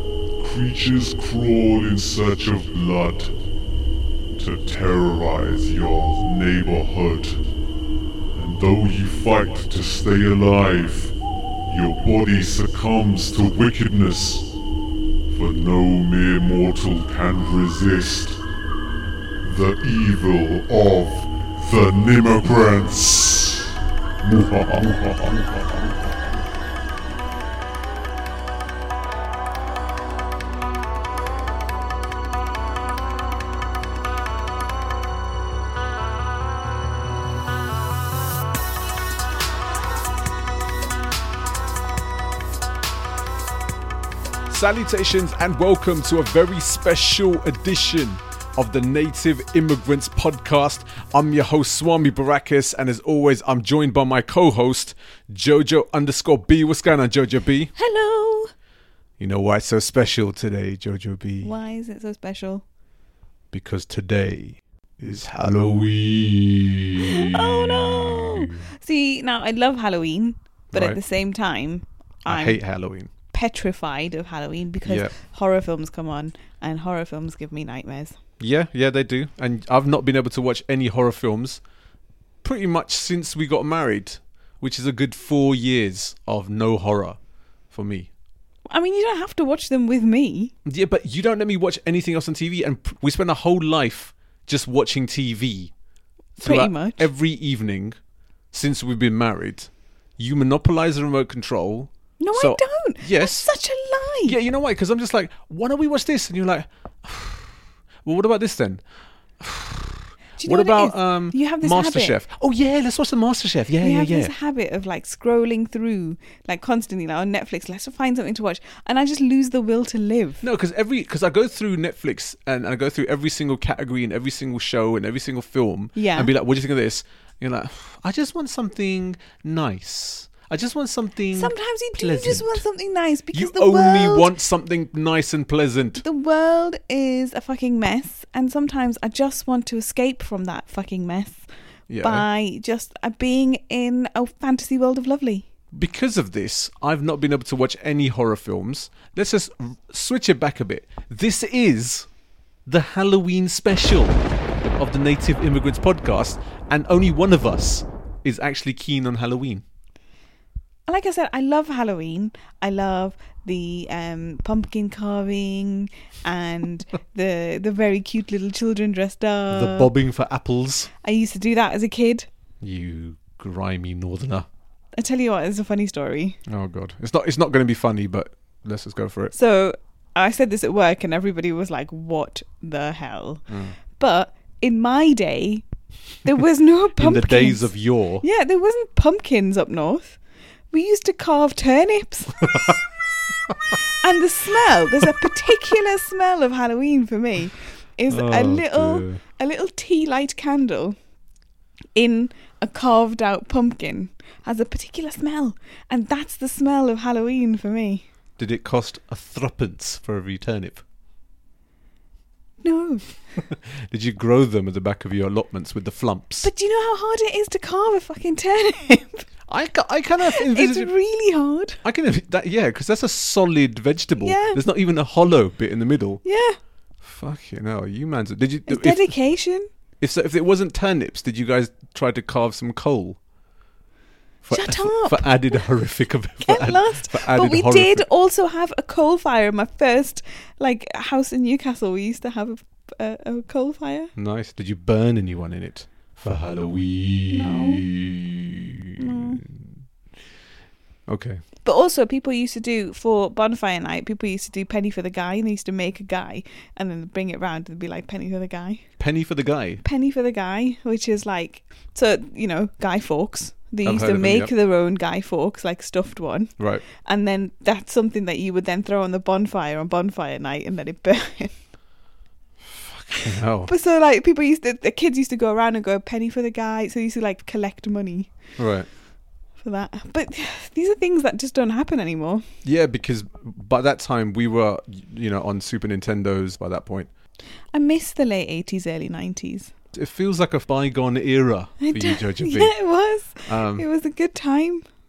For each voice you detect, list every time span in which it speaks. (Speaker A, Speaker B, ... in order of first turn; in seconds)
Speaker A: 0.4-3.4, 4.3-7.4, 8.3-11.1, 11.7-14.5, 15.3-18.4, 19.4-26.1
Speaker B: 44.5-57.7, 59.2-61.5, 63.5-68.7, 70.7-71.0, 72.2-73.1, 74.8-75.1, 78.4-81.6, 82.4-87.2, 87.7-88.1, 90.7-95.7, 96.4-98.0, 98.5-103.5, 104.2-108.8, 109.4-114.3, 120.4-132.6, 133.3-136.0, 141.9-142.3, 145.7-152.1, 152.7-154.2, 154.8-159.6, 169.5-170.9, 172.6-174.5, 176.5-179.3, 183.5-183.7, 187.0-188.2, 198.1-199.2, 208.4-210.8, 213.7-216.5, 219.5-220.9, 221.8-226.2, 227.0-229.1, 230.0-233.2, 234.4-238.0, 244.2-249.7, 251.1-251.4, 259.0-259.8, 263.8-264.5, 266.6-266.8, 272.7-273.7, 278.6-278.9, 282.6-287.1, 289.9-292.7, 293.4-293.8
Speaker C: 57.8-58.5, 61.4-62.6, 67.0-72.6, 73.3-78.2, 88.7-90.5, 96.4-97.1, 102.2-104.4, 110.4-112.2, 113.8-120.4, 125.9-126.3, 131.3-134.3, 136.0-141.5, 142.0-145.4, 160.9-169.9, 171.0-172.3, 174.9-176.4, 179.3-185.6, 186.2-190.2, 190.7-192.4, 194.0-201.0, 201.9-208.0, 212.6-213.1, 216.4-219.2, 220.2-221.8, 224.2-224.6, 226.2-226.6, 228.7-229.7, 234.5-235.6, 236.4-244.1, 247.3-247.8, 249.0-249.4, 251.6-258.9, 259.8-271.6, 273.1-278.3, 279.6-282.4, 287.7-289.7, 291.8-294.8